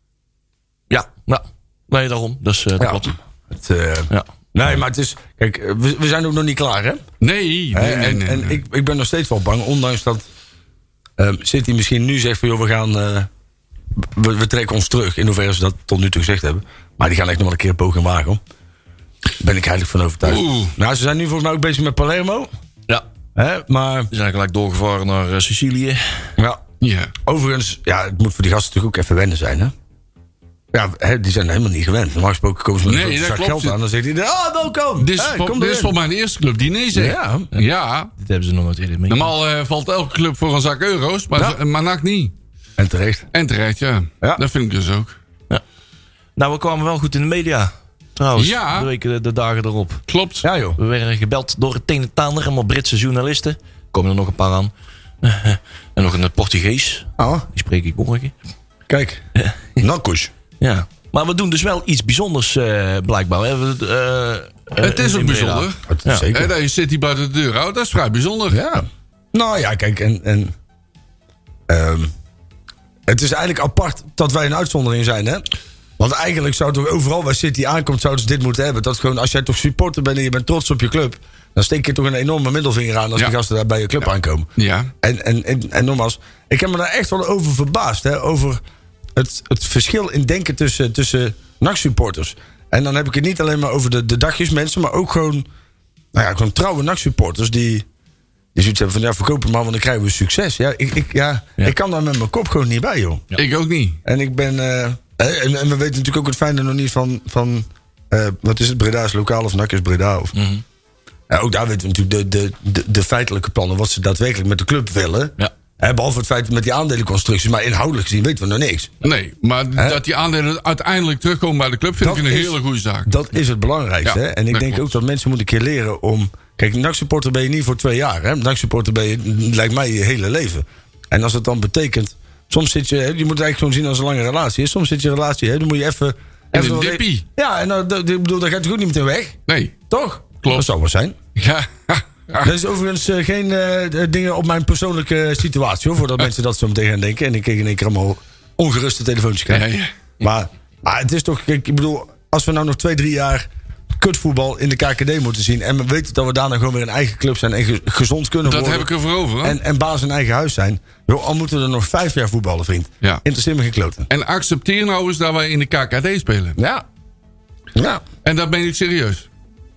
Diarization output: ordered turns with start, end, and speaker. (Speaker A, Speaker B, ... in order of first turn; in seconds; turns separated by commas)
Speaker A: 0.9-3.1, Speaker B: 2.8-7.0, Speaker C: 7.2-8.6, Speaker B: 7.7-10.2, Speaker B: 11.2-13.3, Speaker B: 13.9-18.4, Speaker B: 19.4-22.5, Speaker C: 20.2-20.7, Speaker B: 23.3-24.1, Speaker A: 24.1-26.2, Speaker C: 26.8-27.1, Speaker B: 27.2-29.7, Speaker B: 30.7-36.0, Speaker C: 32.8-33.8, Speaker C: 35.0-38.1, Speaker B: 36.9-37.5, Speaker A: 38.2-39.3, Speaker C: 39.1-42.3, Speaker B: 42.8-43.2, Speaker C: 43.3-45.1, Speaker A: 46.4-50.0, Speaker C: 48.4-48.9, Speaker C: 50.1-50.4, Speaker B: 50.4-50.8, Speaker A: 50.8-58.3, Speaker B: 57.2-57.5, Speaker B: 58.9-59.2, Speaker A: 59.3-59.8, Speaker B: 59.8-60.3, Speaker A: 60.6-66.3, Speaker C: 64.8-68.6, Speaker B: 65.9-66.5, Speaker B: 68.5-70.5, Speaker B: 71.7-72.1, Speaker B: 73.1-75.5, Speaker B: 76.0-84.5, Speaker C: 84.6-84.9, Speaker B: 85.0-88.6, Speaker B: 89.2-95.5, Speaker B: 96.1-97.8, Speaker B: 98.5-103.2, Speaker C: 103.4-104.0, Speaker B: 104.0-110.3, Speaker A: 110.3-110.6, Speaker B: 111.3-118.9, Speaker C: 119.0-123.1, Speaker B: 119.7-120.0, Speaker B: 122.0-139.4, Speaker C: 124.0-124.8, Speaker C: 136.5-137.2, Speaker C: 139.5-139.7, Speaker B: 139.9-141.2, Speaker C: 141.3-142.5, Speaker B: 142.4-149.7, Speaker C: 149.5-149.9, Speaker B: 150.2-158.9, Speaker C: 158.4-159.6, Speaker B: 159.4-164.1, Speaker C: 164.1-166.6, Speaker B: 166.6-166.8, Speaker B: 167.7-168.0, Speaker C: 168.2-169.3